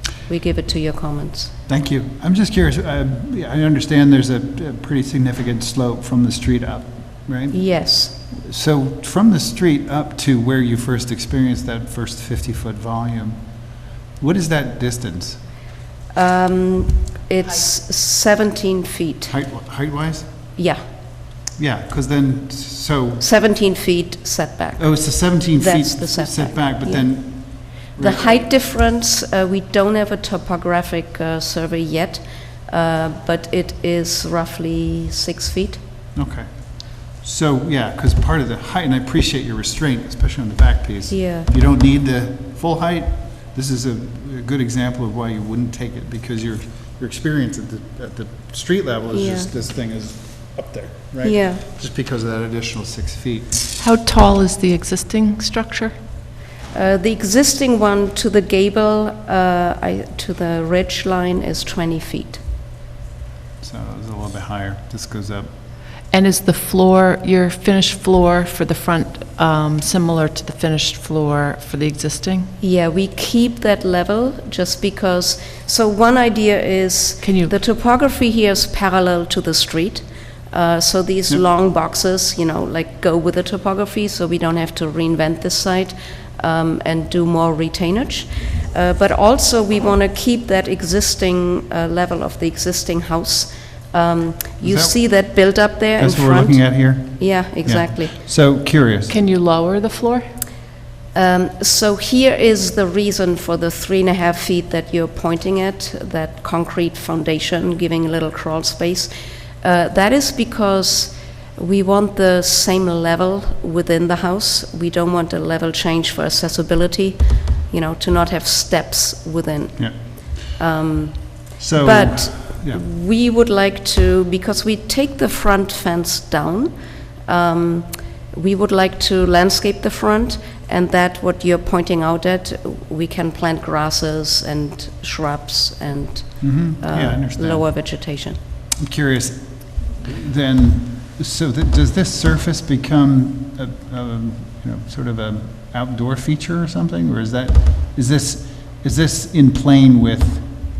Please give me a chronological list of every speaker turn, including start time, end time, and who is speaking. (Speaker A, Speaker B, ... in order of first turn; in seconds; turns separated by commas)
Speaker A: 0.2-1.5, Speaker B: 1.7-15.4, Speaker A: 7.5-8.2, Speaker A: 16.1-19.4, Speaker B: 19.3-20.3, Speaker B: 21.6-23.3, Speaker A: 23.2-35.8, Speaker B: 24.8-28.4, Speaker B: 36.1-53.5, Speaker A: 41.1-41.5, Speaker A: 49.1-49.5, Speaker A: 51.2-51.6, Speaker C: 53.8-55.9, Speaker A: 56.7-62.4, Speaker B: 63.6-65.5, Speaker C: 66.1-72.5, Speaker A: 72.6-98.1, Speaker C: 77.2-77.5, Speaker B: 94.6-99.2, Speaker C: 99.1-100.3, Speaker A: 101.1-109.1, Speaker A: 109.6-126.7, Speaker B: 121.6-122.8, Speaker A: 127.2-138.4, Speaker B: 136.4-138.0, Speaker B: 138.8-150.5